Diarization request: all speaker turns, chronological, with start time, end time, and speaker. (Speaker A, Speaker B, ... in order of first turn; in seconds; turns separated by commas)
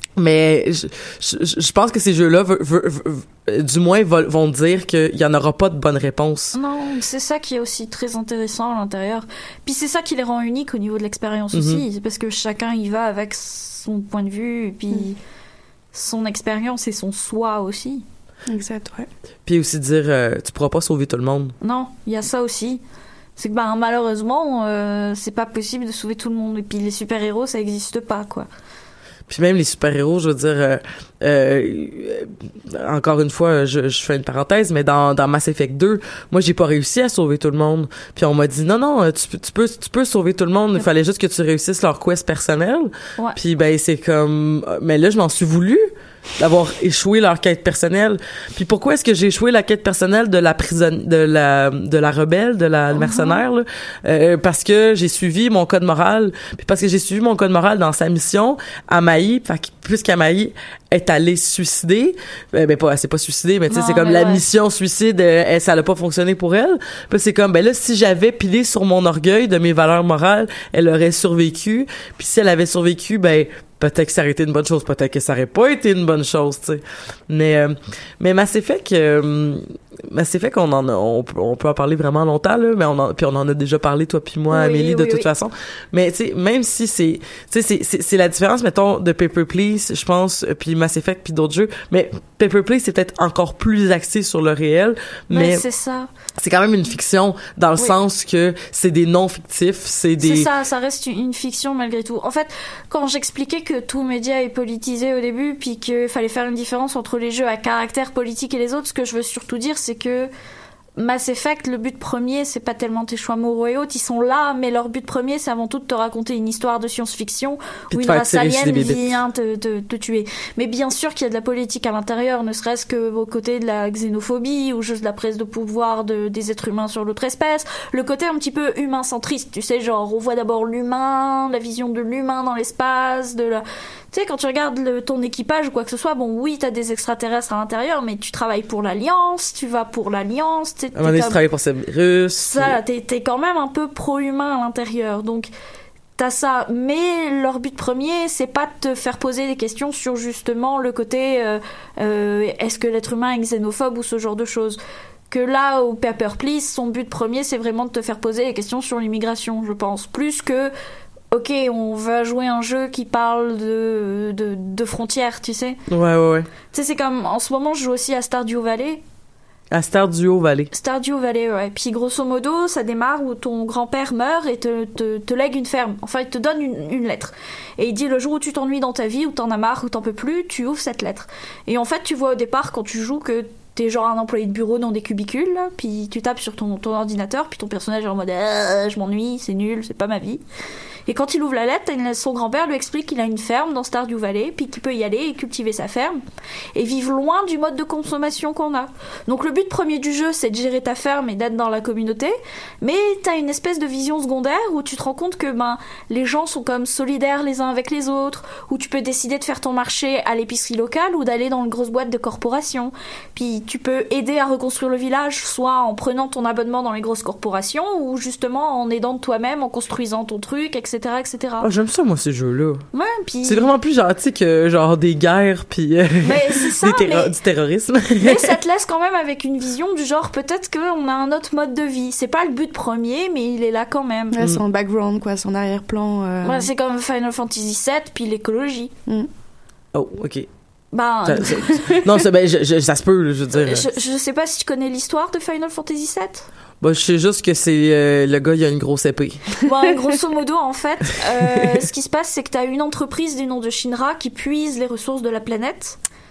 Speaker A: 0.1-6.5, Speaker B: 6.5-15.2, Speaker A: 11.5-11.8, Speaker B: 15.9-18.0, Speaker C: 18.5-19.1, Speaker A: 19.4-21.5, Speaker B: 21.6-22.8, Speaker B: 23.4-28.5, Speaker A: 29.3-95.6, Speaker B: 52.9-53.4, Speaker B: 63.7-64.4, Speaker B: 84.5-85.3, Speaker B: 95.3-96.1, Speaker A: 96.4-100.5, Speaker B: 100.2-110.3, Speaker B: 111.0-141.4, Speaker A: 117.9-119.1, Speaker A: 140.9-142.8, Speaker B: 142.4-145.5, Speaker B: 146.2-154.8, Speaker B: 155.3-160.7, Speaker B: 161.3-165.8, Speaker A: 165.9-166.5, Speaker B: 166.7-169.0, Speaker A: 169.7-170.7, Speaker B: 170.7-190.4, Speaker B: 191.1-196.2, Speaker B: 196.7-221.7, Speaker A: 221.6-222.8, Speaker B: 222.9-223.7, Speaker A: 223.4-228.6, Speaker B: 226.2-227.3, Speaker B: 228.2-234.4, Speaker C: 234.3-236.7, Speaker B: 236.4-238.9, Speaker A: 239.9-240.5, Speaker B: 240.9-241.8, Speaker A: 241.3-243.9, Speaker B: 243.6-246.5, Speaker A: 246.8-249.6, Speaker B: 249.6-256.0